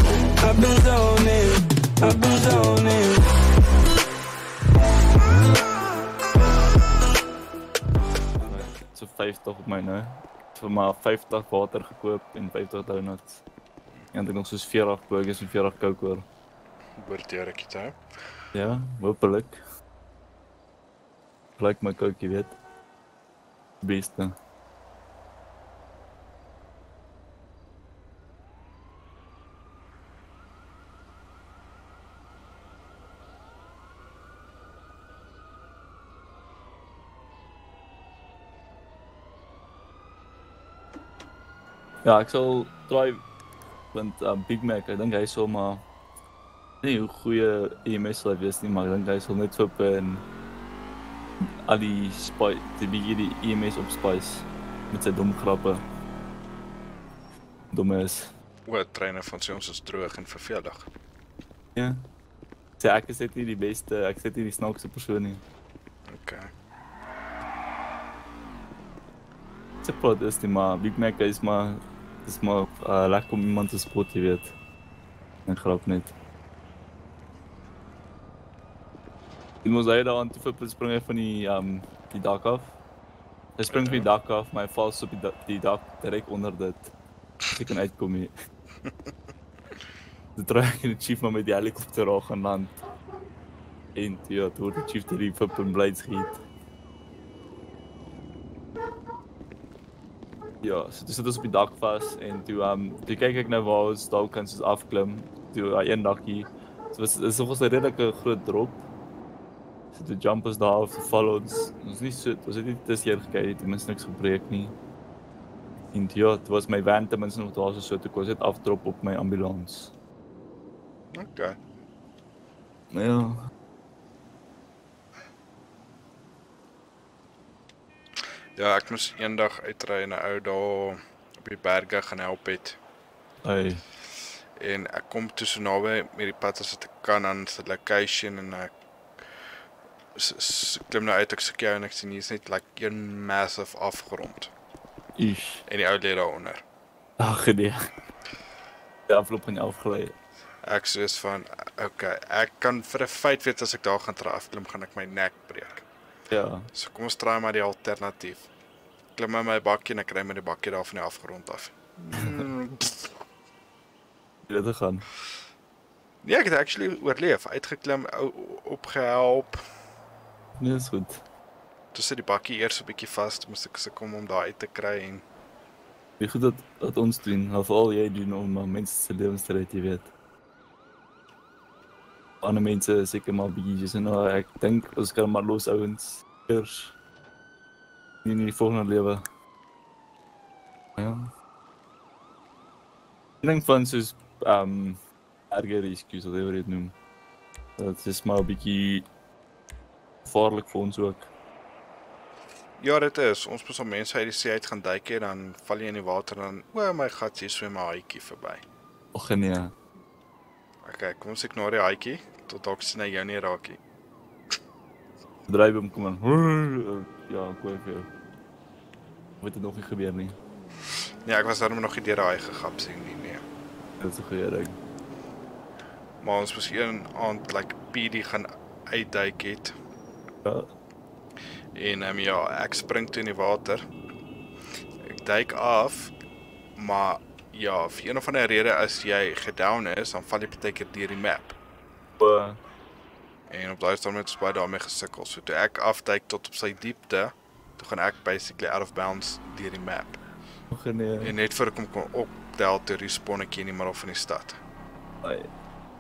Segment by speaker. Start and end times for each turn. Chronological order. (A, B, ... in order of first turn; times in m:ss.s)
0:00.4-0:03.2 A
0:08.4-0:13.4 B
0:14.1-0:16.2 B
0:17.0-0:18.0 C
0:18.5-0:19.6 B
0:21.6-0:22.5 B
0:23.8-0:24.4 B
0:42.0-0:43.2 B
0:43.9-0:45.8 B
0:46.8-0:50.2 B
0:51.6-0:55.8 B
0:57.7-0:58.3 B
0:58.7-1:00.9 C
1:01.7-1:02.0 B
1:02.8-1:05.4 B
1:06.1-1:06.5 C
1:09.8-1:14.5 B
1:15.5-1:16.1 B
1:19.6-1:22.7 B
1:23.6-1:26.9 B
1:23.7-1:24.1 C
1:27.5-1:28.3 B
1:30.4-1:32.8 B
1:33.9-1:36.4 B
1:40.6-1:48.8 B
1:49.9-1:54.7 B
1:55.9-1:59.9 B
2:01.1-2:01.6 C
2:02.9-2:03.4 B
2:08.6-2:12.8 C
2:13.4-2:13.8 B
2:14.6-2:18.7 C
2:20.2-2:24.5 C
2:25.2-2:25.6 B
2:25.7-2:26.6 C
2:27.2-2:27.9 B
2:29.1-2:30.1 B
2:30.6-2:35.8 C
2:36.3-2:36.7 B
2:36.7-2:38.5 C
2:39.2-2:43.1 C
2:44.5-2:45.0 B
2:46.2-2:49.6 C
2:50.6-2:51.2 B
2:51.9-2:55.2 C
2:56.2-3:00.1 B
3:02.4-3:06.9 B
3:08.2-3:09.2 B
3:11.0-3:11.3 B
3:13.4-3:15.0 B
3:15.5-3:16.9 B
3:17.8-3:19.1 B
3:20.2-3:21.3 B
3:22.8-3:28.6 C
3:29.1-3:29.7 B
3:30.8-3:33.8 C
3:35.5-3:38.1 B
3:39.4-3:40.4 B
3:41.2-3:43.4 C
3:44.0-3:44.8 B
3:46.2-3:49.7 C
3:51.7-3:53.8 C
3:55.0-3:56.1 C
3:56.8-4:01.5 C
4:02.2-4:02.6 B
4:03.5-4:10.2 C
4:10.7-4:11.3 B
4:11.2-4:14.6 C
4:15.2-4:15.5 B